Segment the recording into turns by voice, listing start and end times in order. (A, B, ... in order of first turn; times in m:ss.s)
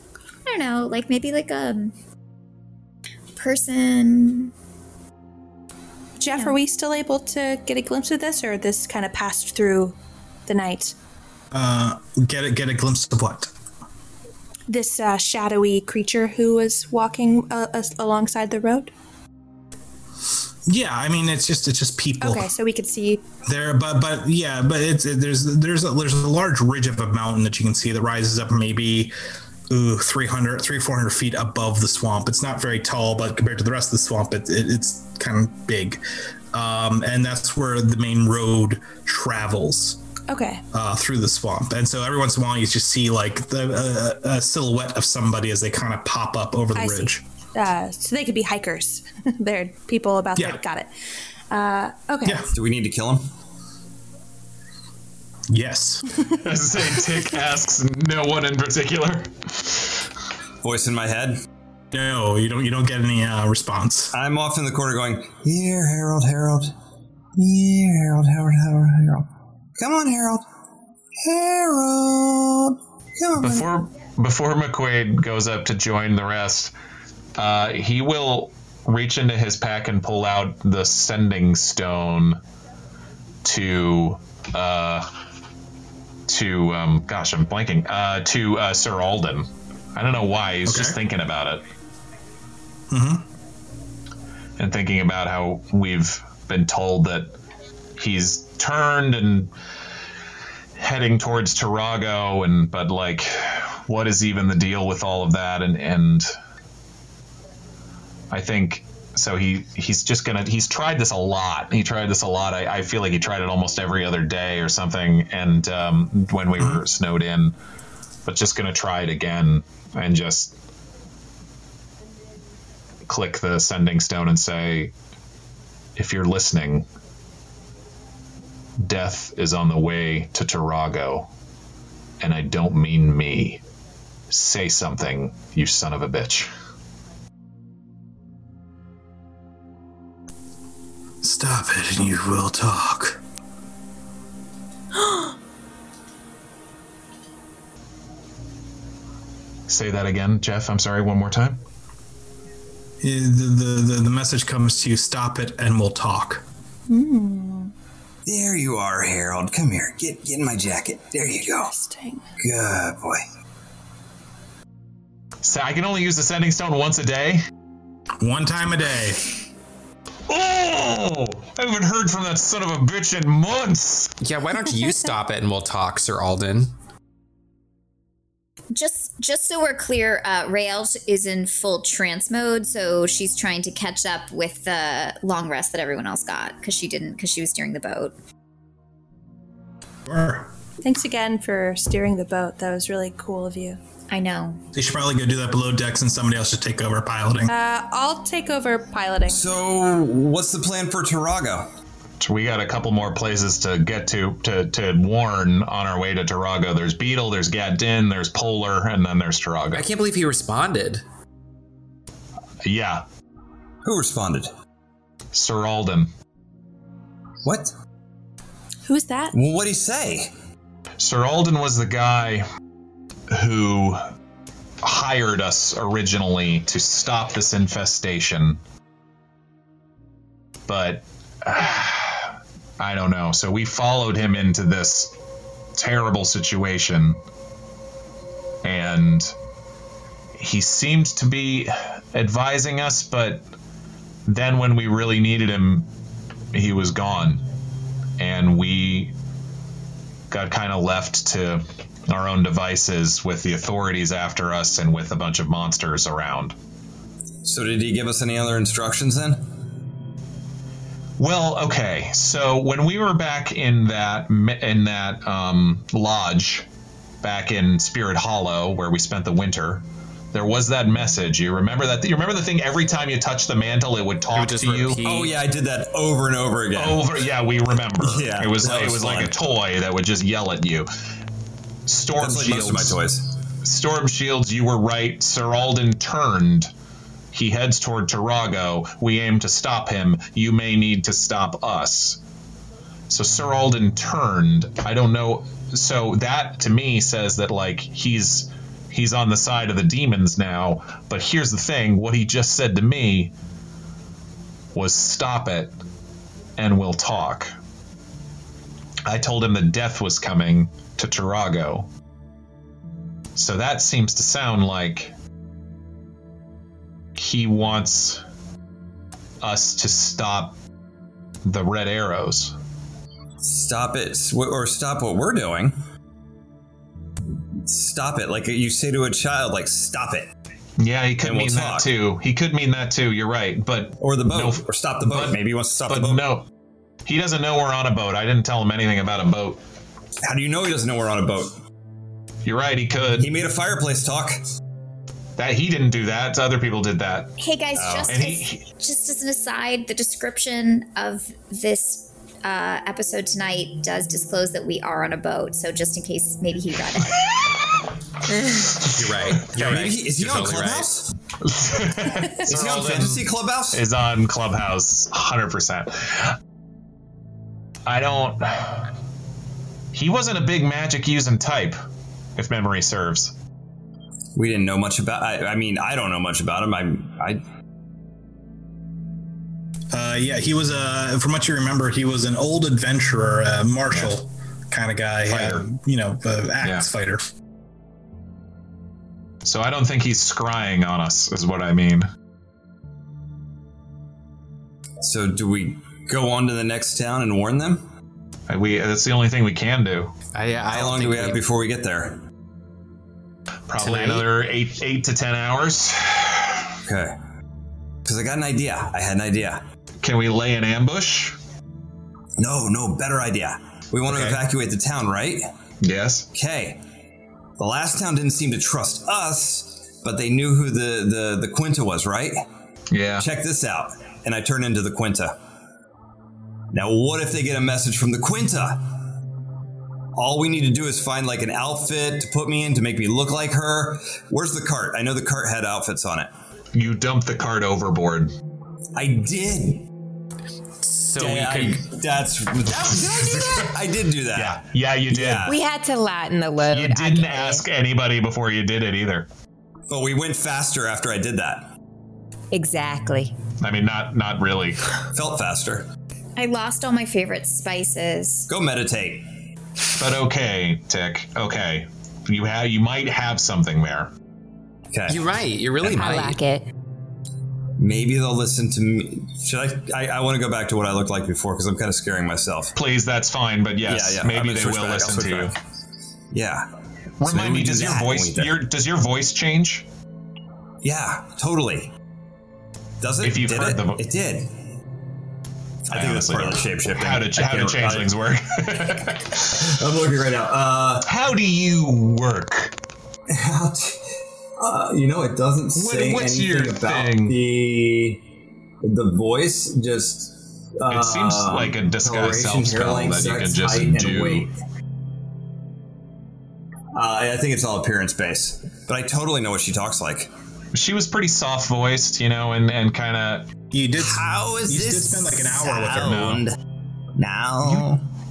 0:00.5-0:01.9 A
0:03.4-0:04.5 A
0:06.2-0:10.0 B
0:10.5-0:11.0 B
0:11.5-0:13.5 C
0:14.7-0:18.9 B
0:20.7-0:22.5 C
0:22.2-0:23.2 B
0:23.4-0:29.1 C
0:29.7-0:36.0 C
0:36.5-0:40.0 C
0:40.3-0:40.6 B
0:40.7-0:47.2 C
0:46.8-0:50.9 B
0:50.4-0:50.6 C
0:51.5-0:52.5 B
0:52.5-0:53.3 D
0:55.5-0:56.1 C
0:56.4-0:59.8 E
1:00.6-1:01.4 D
1:01.9-1:04.1 C
1:04.1-1:06.7 D
1:07.4-1:10.4 D
1:11.2-1:13.7 D
1:13.4-1:16.7 E
1:17.4-1:22.4 E
1:23.4-1:25.1 E
1:26.3-1:31.6 E
1:30.7-1:31.0 C
1:32.9-1:33.2 C
1:34.6-1:37.3 E
1:38.0-1:39.5 E
1:40.8-1:46.3 E
1:48.3-1:57.5 E
1:58.3-2:00.6 E
2:03.1-2:04.9 E
2:06.0-2:06.9 E
2:08.8-2:11.3 E
2:12.2-2:13.6 E
2:14.3-2:16.5 E
2:21.2-2:23.2 C
2:29.7-2:31.6 E
2:33.0-2:36.4 C
2:36.9-2:37.7 B
2:38.2-2:41.7 D
2:41.5-2:42.2 B
2:42.4-2:43.2 D
2:45.4-2:47.4 E
2:48.2-2:49.2 C
2:50.3-2:54.1 E
2:54.2-2:56.7 F
2:58.7-3:08.2 A
3:10.1-3:10.5 C
3:10.8-3:13.8 B
3:14.1-3:14.6 A
3:14.7-3:17.5 C
3:17.5-3:19.4 B
3:19.3-3:21.7 D
3:22.2-3:29.9 E
3:29.7-3:31.0 F
3:32.6-3:33.0 E
3:33.8-3:34.5 D
3:35.3-3:36.1 E
3:37.4-3:37.7 D
3:38.9-3:39.3 B
3:39.3-3:40.3 D
3:41.0-3:42.5 E
3:43.3-3:44.0 E
3:44.8-3:48.6 E
3:50.7-3:55.1 E
3:55.8-3:57.2 E
3:58.6-3:59.3 E
4:00.4-4:03.4 E
4:04.3-4:05.9 E
4:06.5-4:07.4 E
4:08.2-4:09.1 E
4:10.3-4:16.6 E
4:17.4-4:19.5 D
4:21.2-4:26.7 E
4:27.2-4:35.0 E
4:34.3-4:35.3 F
4:35.0-4:37.1 D
4:36.8-4:40.9 E
4:38.0-4:39.4 D
4:41.9-4:43.0 E
4:42.2-4:43.3 D
4:43.6-4:46.7 E
4:47.3-4:52.2 E
4:53.1-5:03.3 E
5:04.7-5:05.7 E
5:06.6-5:07.5 E
5:09.1-5:11.9 E
5:13.4-5:15.1 E
5:17.2-5:18.2 E
5:19.4-5:20.6 E
5:21.4-5:22.6 E
5:23.4-5:25.8 D
5:27.6-5:30.3 D
5:30.8-5:36.5 E
5:31.2-5:31.9 D
5:34.0-5:36.3 D
5:37.1-5:39.6 E
5:40.2-5:41.6 D
5:42.4-5:43.3 E
5:43.2-5:44.4 D
5:45.4-5:47.4 E
5:47.4-5:57.2 A
5:47.8-5:48.2 D
5:48.1-5:48.6 E
5:58.6-6:00.9 F
5:59.5-6:01.1 D
6:01.4-6:03.0 E
6:02.4-6:03.8 D
6:02.5-6:03.2 F
6:03.7-6:06.3 E
6:07.9-6:08.9 E
6:09.9-6:11.8 E
6:12.4-6:13.3 E
6:14.4-6:17.4 D
6:19.9-6:27.2 C
6:25.3-6:25.6 E
6:29.4-6:32.1 E
6:35.0-6:37.8 D
6:38.5-6:40.1 E
6:40.3-6:41.4 F
6:40.7-6:42.2 D
6:43.7-6:46.6 E
6:43.8-6:44.3 F
6:46.9-6:47.2 D
6:48.0-6:49.6 D
6:50.0-6:51.4 E
6:52.4-6:55.5 D
6:54.1-6:54.4 E
6:55.8-6:56.3 E
6:56.3-6:56.8 D
6:57.6-7:02.4 D
7:02.9-7:03.3 E
7:03.2-7:05.4 D
7:06.7-7:08.9 D
7:10.2-7:16.3 D
7:16.7-7:18.3 E
7:19.0-7:19.9 D
7:20.8-7:21.9 F
7:21.2-7:25.5 D
7:22.9-7:23.7 E
7:24.4-7:25.5 E
7:25.4-7:27.6 G
7:26.7-7:29.3 E
7:29.9-7:31.7 D
7:32.5-7:33.4 G
7:33.6-7:34.9 E
7:35.2-7:35.9 D
7:36.4-7:38.5 A
7:38.5-7:39.3 D
7:40.0-7:44.1 E
7:44.9-7:45.3 D
7:45.1-7:46.4 F
7:45.9-7:46.7 G
7:47.8-7:52.7 D
7:52.8-7:55.5 E
7:53.8-7:55.6 D
7:56.3-7:56.7 D
7:57.2-7:58.5 D
7:57.2-7:59.9 E
8:00.8-8:01.9 D
8:03.0-8:04.5 D
8:03.2-8:04.0 E
8:05.9-8:08.1 D
8:05.9-8:09.6 E
8:09.4-8:11.1 D
8:11.0-8:12.8 E
8:13.3-8:14.0 D
8:14.6-8:18.2 D
8:15.8-8:17.4 E
8:18.8-8:24.5 D
8:20.9-8:24.5 E
8:26.9-8:30.3 D
8:30.7-8:33.5 E
8:33.7-8:36.3 C
8:34.0-8:36.6 D
8:36.0-8:36.4 E
8:37.2-8:38.0 D